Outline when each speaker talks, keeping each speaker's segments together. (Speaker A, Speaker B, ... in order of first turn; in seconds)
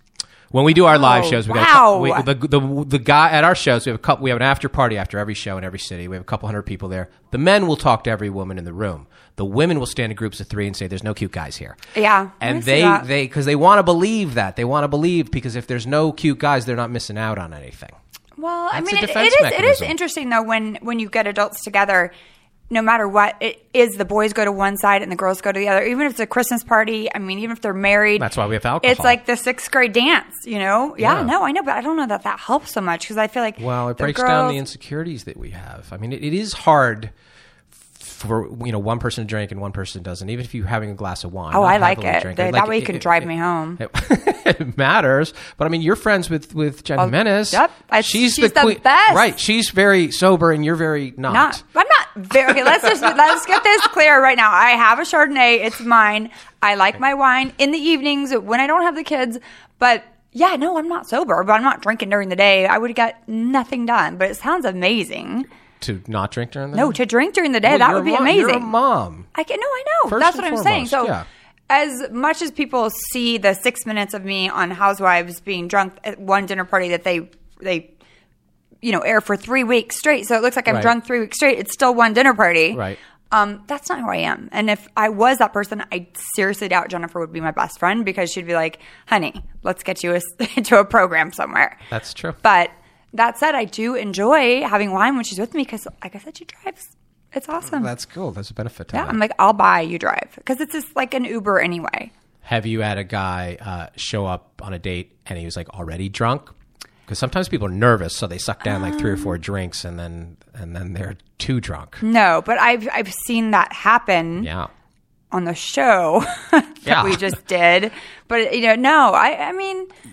Speaker A: 0.5-11.8, 12.4-18.0, 18.7-19.9, 28.2-29.2, 31.0-31.3, 33.6-37.1, 38.0-51.6, 65.8-67.0, 67.6-69.3, 70.1-71.3, 82.7-83.0, 91.9-92.4, 97.6-99.2, 102.4-106.5, 107.1-112.0, 114.4-114.7, 116.8-117.3
Speaker B: 0.9-2.3, 11.9-13.1, 18.4-22.1, 22.7-28.3, 28.8-34.6, 41.5-43.8, 47.0-49.4, 51.3-65.5, 66.7-68.7, 69.3-71.2, 71.7-77.9, 78.8-91.8, 92.4-97.9, 98.9-102.1, 108.7-109.3, 112.0-114.5, 115.3-119.9